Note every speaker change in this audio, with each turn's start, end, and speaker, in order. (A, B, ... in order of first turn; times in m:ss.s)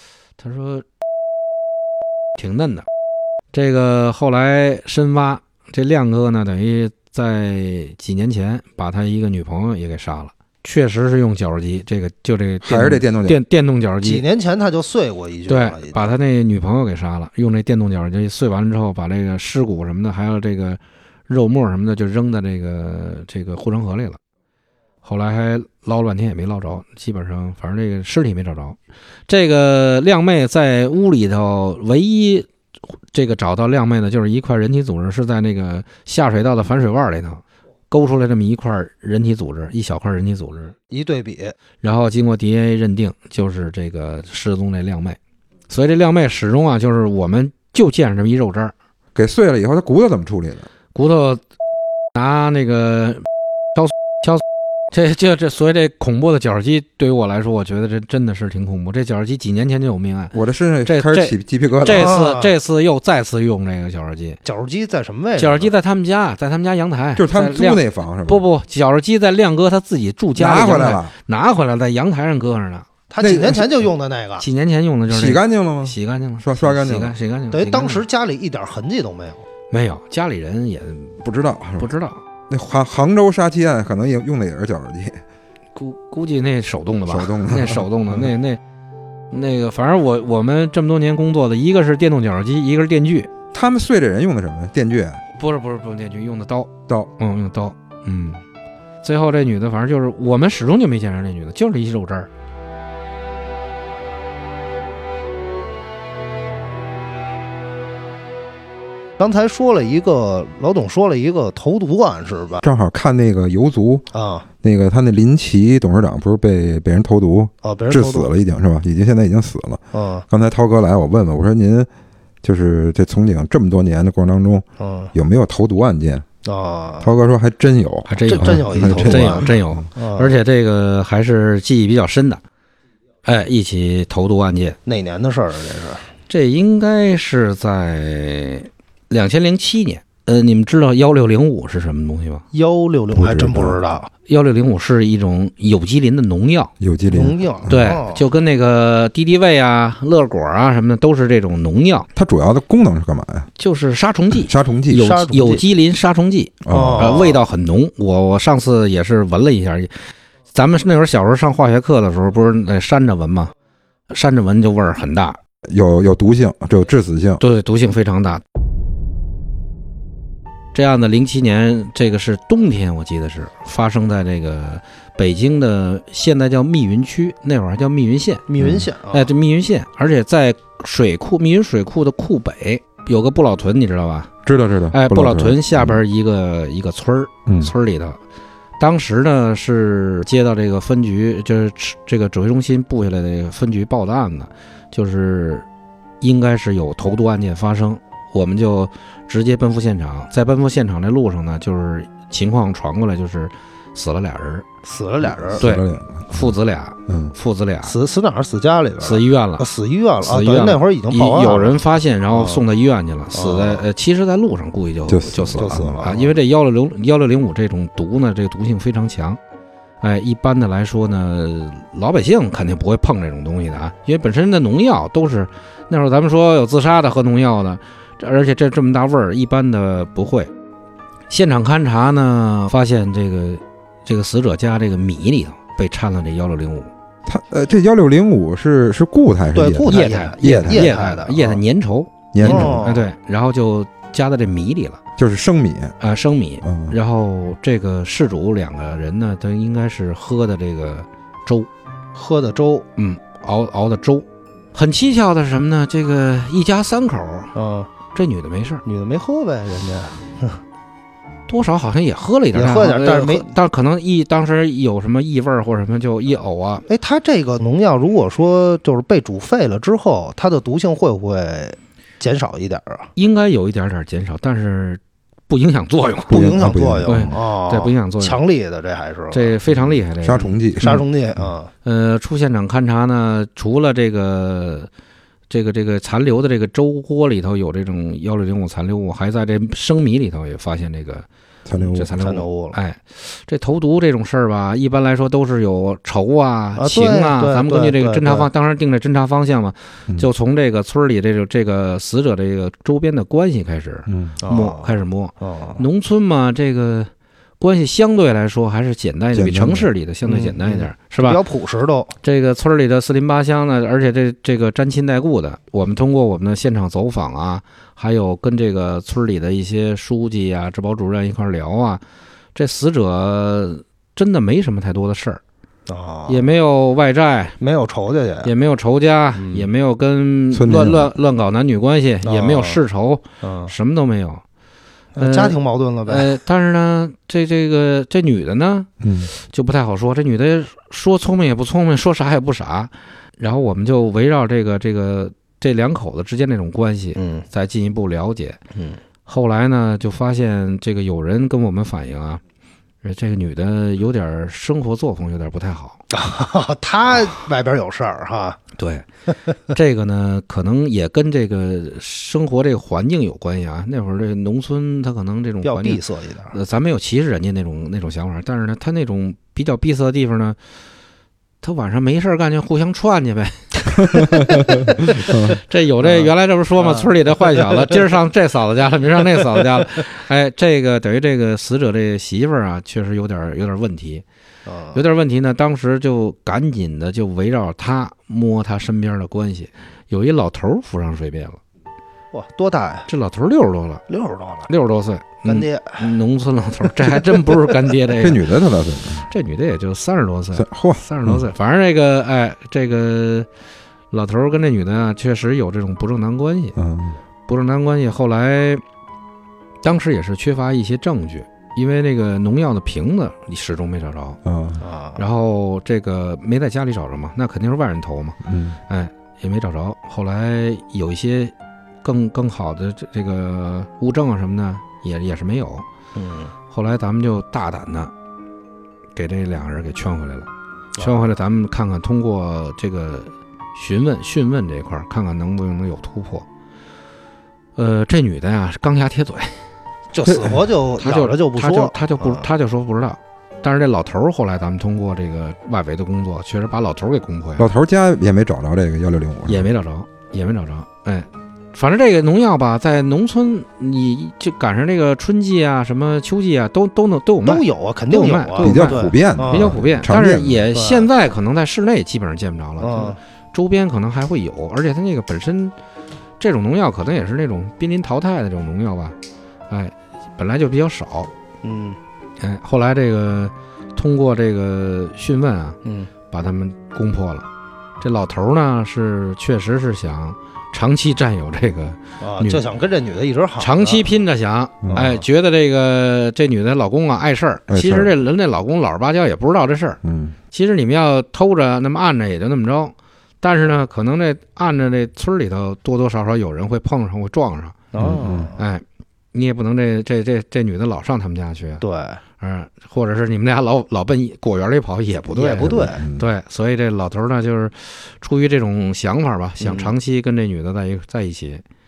0:00.4-0:00.8 A
0:02.4-0:02.8 A
0:03.5-0:14.2 A
0:12.6-0:13.4 B
0:14.0-0:16.1 C
0:15.5-0:24.2 A
0:25.0-0:32.5 A
0:33.1-0:40.7 A
0:40.9-0:41.6 C
0:41.8-0:45.2 A
0:45.7-0:48.7 A
0:49.1-0:50.7 B
0:50.9-0:51.4 A
0:52.1-1:00.3 A
1:00.3-1:02.1 B
1:00.8-1:04.4 A
1:01.9-1:02.5 C
1:04.4-1:05.7 C
1:05.4-1:12.9 A
1:07.2-1:08.4 B
1:10.4-1:11.1 B
1:13.1-1:14.4 C
1:13.2-1:13.8 B
1:14.4-1:18.0 A
1:15.1-1:17.1 B
1:17.5-1:19.4 C
1:19.7-1:21.2 A
1:21.2-1:21.9 B
1:21.8-1:22.2 A
1:22.5-1:25.2 B
1:25.7-1:28.6 A
1:27.1-1:28.3 B
1:29.3-1:33.3 A
1:33.5-1:35.2 B
1:35.3-1:38.4 A
1:39.0-1:42.3 A
1:49.2-1:52.6 C
1:52.6-1:54.0 B
1:54.1-1:54.5 C
1:54.6-2:01.9 B
1:57.6-1:58.3 C
1:59.9-2:00.2 C
2:02.4-2:06.2 B
2:04.8-2:05.1 C
2:06.4-2:07.1 C
2:07.0-2:09.8 B
2:08.1-2:12.4 A
2:08.3-2:10.4 C
2:13.2-2:14.8 A
2:14.8-2:16.1 C
2:16.3-2:22.4 A
2:22.5-2:24.1 C
2:23.1-2:23.8 B
2:24.3-2:26.7 A
2:26.8-2:27.8 B
2:27.1-2:28.2 C
2:27.7-2:32.1 A
2:32.1-2:33.5 B
2:33.6-2:39.9 A
2:34.4-2:35.1 B
2:34.9-2:35.6 C
2:36.6-2:37.2 B
2:36.7-2:37.4 C
2:40.5-2:43.5 A
2:44.1-2:45.4 A
2:45.7-2:47.4 B
2:47.4-2:48.4 A
2:50.7-2:58.4 A
2:58.5-2:59.3 C
2:58.6-2:58.9 B
2:59.1-3:04.3 A
3:04.4-3:06.0 B
3:04.9-3:08.2 A
3:07.4-3:07.7 B
3:08.8-3:15.6 A
3:16.2-3:24.6 A
3:24.8-3:25.6 C
3:25.2-3:26.6 B
3:25.6-3:28.0 A
3:27.1-3:27.3 B
3:27.8-3:31.8 C
3:29.0-3:29.6 A
3:30.2-3:39.4 A
3:32.3-3:32.6 C
3:33.3-3:33.8 C
3:35.1-3:36.1 B
3:35.5-3:36.3 C
3:40.0-3:50.5 A
3:51.3-3:56.9 A
3:57.2-4:00.9 B
3:59.5-4:01.6 C
3:59.9-4:05.0 A
4:02.3-4:02.9 B
4:02.4-4:03.1 C
4:05.2-4:06.0 B
4:06.0-4:11.7 A
4:06.6-4:07.0 B
4:12.1-4:12.8 C
4:13.0-4:17.5 A
4:17.5-4:17.9 C
4:18.1-4:18.8 A
4:18.8-4:20.6 C
4:21.5-4:26.8 A
4:22.5-4:23.5 C
4:26.9-4:33.1 C
4:33.2-4:38.4 A
4:36.3-4:37.3 B
4:36.3-4:39.6 C
4:39.3-4:41.0 A
4:40.2-4:41.5 B
4:40.8-4:41.7 C
4:41.8-4:44.9 A
4:45.5-4:51.3 A
4:51.7-4:52.1 B
4:51.8-5:11.4 A
4:52.0-4:52.8 C
4:56.8-4:58.5 C
5:04.1-5:04.4 B
5:04.4-5:05.8 C
5:09.3-5:09.9 B
5:10.2-5:12.1 C
5:12.2-5:22.0 A
5:22.5-5:25.4 A
5:25.9-5:26.5 C
5:26.3-5:27.6 A
5:27.6-5:28.5 C
5:28.4-5:34.4 A
5:29.3-5:29.7 C
5:30.5-5:31.1 B
5:32.2-5:32.8 C
5:33.4-5:33.7 C
5:35.2-5:36.3 C
5:35.2-5:48.6 A
5:39.0-5:39.3 B
5:47.2-5:47.4 C
5:48.7-5:49.0 C
5:49.2-5:52.4 A
5:53.0-5:56.0 A
5:56.1-5:58.6 C
5:58.8-5:59.0 A
5:59.6-6:10.6 A
6:05.6-6:06.5 C
6:11.6-6:24.2 A
6:14.1-6:15.6 B
6:16.0-6:18.0 C
6:24.6-6:25.0 C
6:24.9-6:31.6 A
6:32.3-6:33.1 C
6:33.1-6:34.0 A
6:34.1-6:34.7 C
6:34.7-6:38.5 A
6:35.4-6:36.1 C
6:37.1-6:37.6 C
6:38.2-6:39.3 B
6:39.3-6:43.5 A
6:40.5-6:41.4 B
6:44.1-6:46.8 A
6:46.8-6:47.2 B
6:47.5-6:48.8 A
6:49.8-6:54.4 A
6:54.4-6:54.8 B
6:54.8-6:55.2 C
6:55.2-7:05.8 A
6:58.4-6:58.8 B
7:06.1-7:06.5 C
7:06.7-7:08.1 A
7:09.1-7:16.4 A
7:17.8-7:19.6 A
7:20.1-7:22.5 C
7:20.3-7:27.7 A
7:27.6-7:29.7 B
7:29.5-7:45.7 A
7:37.4-7:39.8 C
7:38.6-7:40.6 B
7:40.7-7:41.1 C
7:42.8-7:43.2 C
7:46.4-7:49.2 A
7:49.7-7:51.3 A
7:51.6-7:52.0 C
7:52.4-7:57.5 A
7:55.8-7:56.1 C
7:58.0-8:02.6 A
8:02.2-8:04.1 C
8:03.6-8:10.0 A
8:04.9-8:05.2 C
8:07.7-8:08.1 B
8:10.0-8:10.4 B
8:10.5-8:17.9 A
8:17.9-8:18.6 C
8:18.0-8:18.5 B
8:18.6-8:21.8 A
8:21.8-8:22.2 C
8:22.4-8:31.6 A
8:25.3-8:26.0 C
8:25.6-8:26.2 B
8:29.6-8:29.9 C